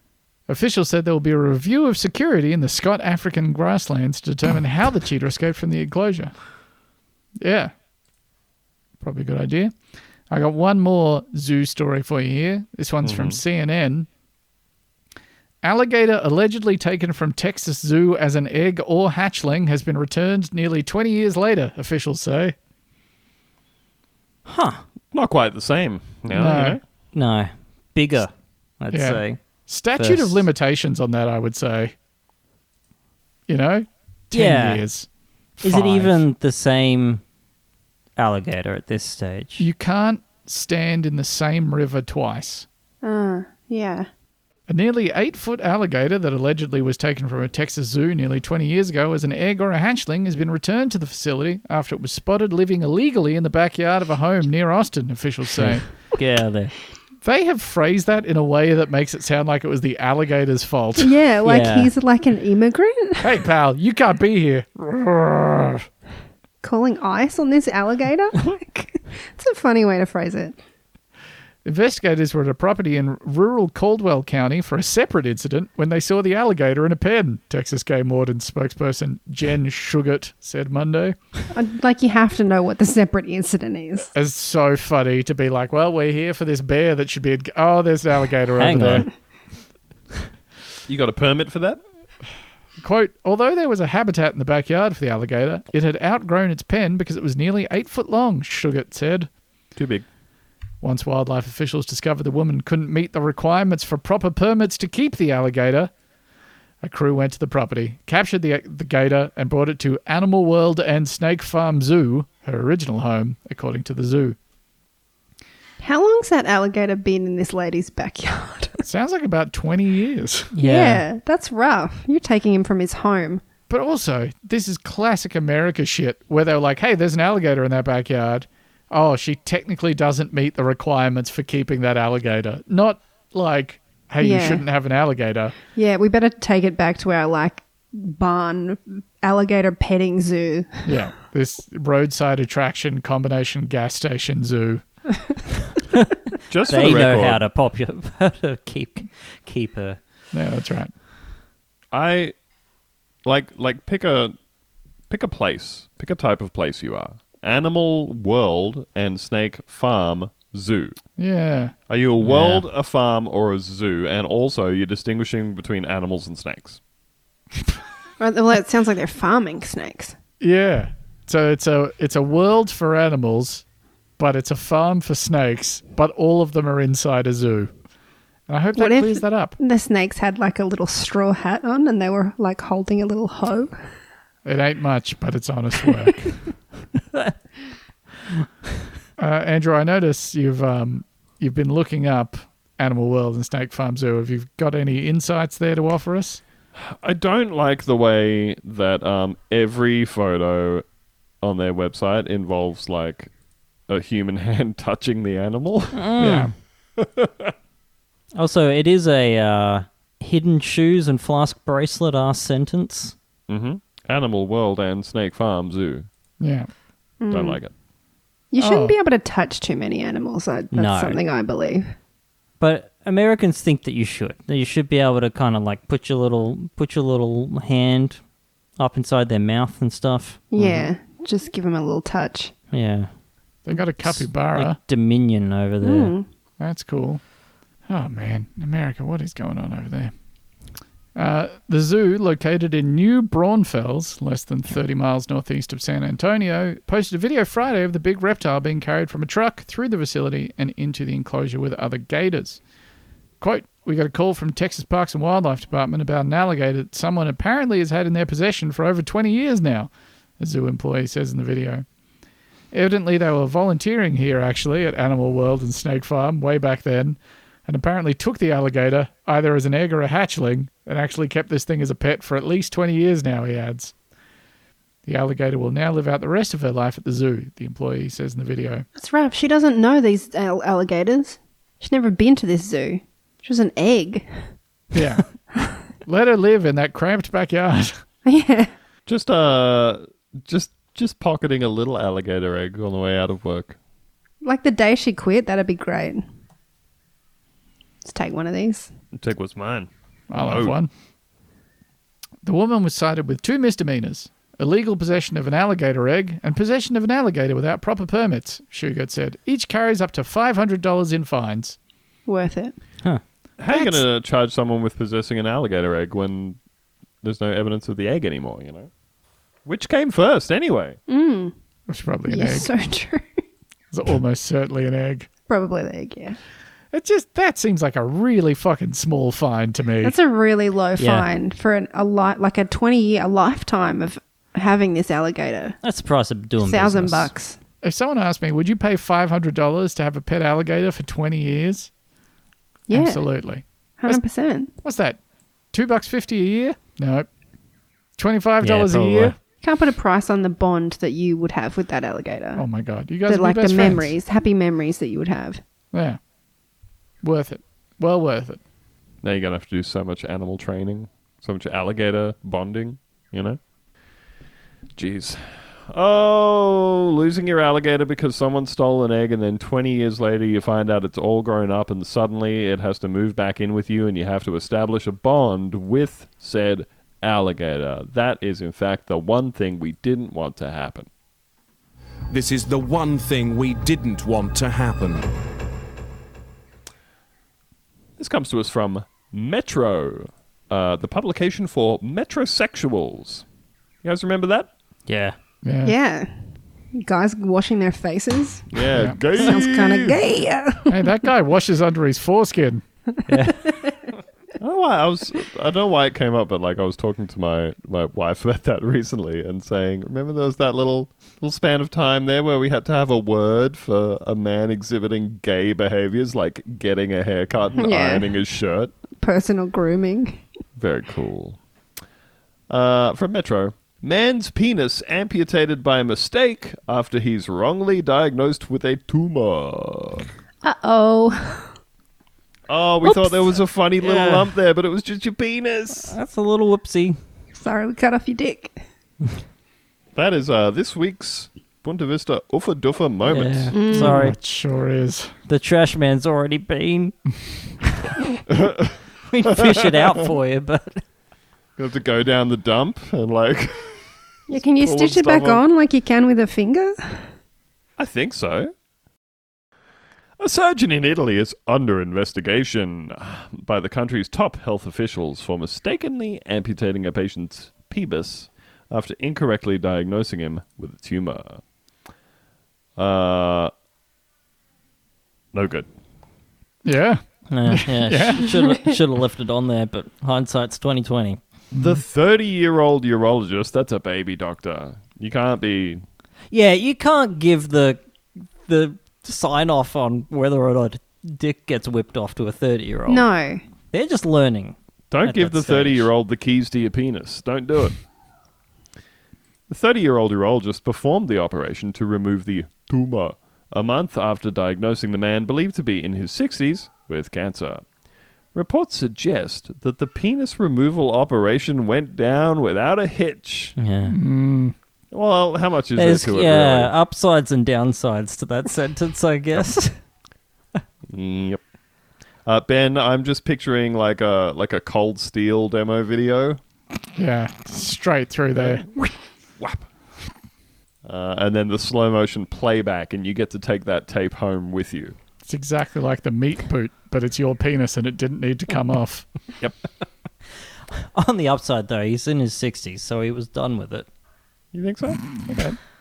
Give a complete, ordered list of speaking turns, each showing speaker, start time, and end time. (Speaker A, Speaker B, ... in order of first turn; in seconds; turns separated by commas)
Speaker A: 0.5-6.3, Speaker A: 7.4-7.7, Speaker A: 9.0-9.7, Speaker A: 10.3-14.1, Speaker B: 13.0-13.4, Speaker A: 15.6-22.5, Speaker C: 24.4-24.8, Speaker B: 25.1-26.8, Speaker A: 26.3-26.8, Speaker C: 27.1-29.4, Speaker A: 28.9-31.9, Speaker C: 29.9-30.4, Speaker A: 33.5-36.2, Speaker C: 34.3-34.8, Speaker C: 35.6-37.2, Speaker C: 38.2-39.6, Speaker A: 39.6-42.6, Speaker D: 43.0-44.1, Speaker A: 44.7-55.9, Speaker C: 55.5-56.7, Speaker A: 57.2-61.1, Speaker D: 61.0-63.4, Speaker C: 61.4-61.9, Speaker A: 63.2-65.9, Speaker D: 66.6-70.6, Speaker A: 71.6-81.2, Speaker D: 81.5-84.1, Speaker A: 84.1-89.1, Speaker C: 88.6-89.1, Speaker B: 90.9-91.8, Speaker A: 92.8-99.3, Speaker B: 99.8-100.0, Speaker A: 100.8-105.9, Speaker A: 106.8-114.4, Speaker D: 115.8-118.8, Speaker A: 118.8-120.5, Speaker C: 120.5-121.0, Speaker D: 120.6-123.4, Speaker A: 123.7-135.5, Speaker D: 134.2-134.6, Speaker D: 135.7-141.0, Speaker A: 140.8-144.8, Speaker B: 146.5-147.4, Speaker C: 146.7-150.0, Speaker A: 150.3-150.9, Speaker B: 151.9-152.3, Speaker B: 153.2-154.3, Speaker B: 155.1-161.0, Speaker A: 161.2-161.7, Speaker B: 161.9-166.8, Speaker C: 162.2-162.6, Speaker D: 168.2-170.2, Speaker A: 170.4-173.6, Speaker A: 174.2-177.7, Speaker A: 178.5-179.6, Speaker D: 178.8-183.8, Speaker A: 184.4-186.4, Speaker A: 189.2-196.4, Speaker B: 196.8-200.8, Speaker B: 201.4-203.3, Speaker B: 203.9-206.3, Speaker C: 205.9-206.5, Speaker A: 206.2-206.5, Speaker B: 207.0-207.5, Speaker C: 208.3-213.1, Speaker B: 213.5-216.1, Speaker A: 216.4-216.7, Speaker D: 217.2-217.6, Speaker B: 217.3-217.7, Speaker D: 218.5-221.9, Speaker A: 218.6-218.9, Speaker C: 220.7-221.2, Speaker C: 222.6-228.2, Speaker C: 228.8-230.9, Speaker D: 230.5-232.5, Speaker C: 232.7-233.1, Speaker A: 233.7-234.8, Speaker C: 234.0-236.1, Speaker D: 235.8-236.2, Speaker A: 236.6-237.2, Speaker A: 237.9-240.1, Speaker A: 241.1-252.6, Speaker A: 253.4-261.9, Speaker A: 262.7-273.9, Speaker A: 275.1-278.9, Speaker D: 278.9-284.4, Speaker A: 284.9-285.3, Speaker A: 286.0-288.0, Speaker D: 288.2-288.7, Speaker B: 289.1-293.8, Speaker D: 294.4-296.2, Speaker D: 298.0-298.9, Speaker B: 299.1-300.8, Speaker A: 300.3-300.9, Speaker A: 302.4-311.8, Speaker D: 312.2-312.8, Speaker B: 313.6-316.6, Speaker D: 313.7-314.0, Speaker B: 317.2-318.9, Speaker B: 319.6-321.0, Speaker D: 321.1-321.5, Speaker A: 321.9-322.7, Speaker D: 322.3-323.3, Speaker A: 323.9-325.3, Speaker D: 325.5-326.4, Speaker A: 326.9-330.1, Speaker D: 330.0-335.8, Speaker C: 331.0-331.3, Speaker C: 335.8-337.3, Speaker D: 336.6-337.6, Speaker A: 337.8-341.9, Speaker D: 342.9-343.3, Speaker A: 342.9-344.2, Speaker D: 344.0-344.7, Speaker A: 344.8-345.2, Speaker A: 345.7-347.3, Speaker A: 348.2-349.4, Speaker C: 348.6-349.4, Speaker D: 349.6-352.6, Speaker A: 352.6-354.1, Speaker D: 353.3-355.6, Speaker A: 355.9-356.2, Speaker A: 357.2-358.6, Speaker B: 359.2-363.6, Speaker B: 364.9-381.1, Speaker E: 382.3-385.3, Speaker B: 388.2-393.4, Speaker B: 394.0-394.7, Speaker C: 395.1-395.4, Speaker A: 395.6-395.9, Speaker D: 395.8-401.2, Speaker B: 398.7-400.2, Speaker A: 398.9-399.2, Speaker A: 400.9-402.8, Speaker C: 403.3-403.8, Speaker D: 403.7-403.9, Speaker B: 404.6-418.9, Speaker D: 417.8-418.3, Speaker D: 419.2-420.4, Speaker B: 420.8-421.6, Speaker B: 422.7-430.3, Speaker D: 430.6-431.7, Speaker B: 432.7-436.1, Speaker C: 434.0-434.5, Speaker C: 436.0-437.2, Speaker D: 437.6-438.8, Speaker B: 440.1-443.7, Speaker C: 443.3-444.4, Speaker D: 443.7-444.3, Speaker A: 443.9-445.3, Speaker C: 445.5-447.1, Speaker B: 448.5-450.2, Speaker C: 449.3-451.0, Speaker B: 451.8-455.6, Speaker D: 454.5-457.3, Speaker B: 458.0-458.7, Speaker B: 460.4-471.6, Speaker B: 473.0-473.7, Speaker B: 475.5-475.9, Speaker A: 476.8-478.5, Speaker C: 477.5-481.4, Speaker A: 481.7-482.0, Speaker B: 481.8-486.0, Speaker C: 486.5-488.0, Speaker C: 488.6-493.3, Speaker D: 493.1-493.6, Speaker C: 493.9-496.1, Speaker B: 495.1-498.0, Speaker B: 499.7-507.8, Speaker B: 508.5-513.8, Speaker C: 513.8-514.1, Speaker A: 514.1-514.7, Speaker B: 515.1-516.9, Speaker C: 516.0-519.9, Speaker B: 521.1-521.6, Speaker B: 522.5-526.6, Speaker A: 527.1-528.9, Speaker B: 529.6-529.9, Speaker B: 531.0-535.1, Speaker A: 535.5-539.3, Speaker C: 540.9-544.1, Speaker B: 544.7-545.4, Speaker A: 545.5-545.8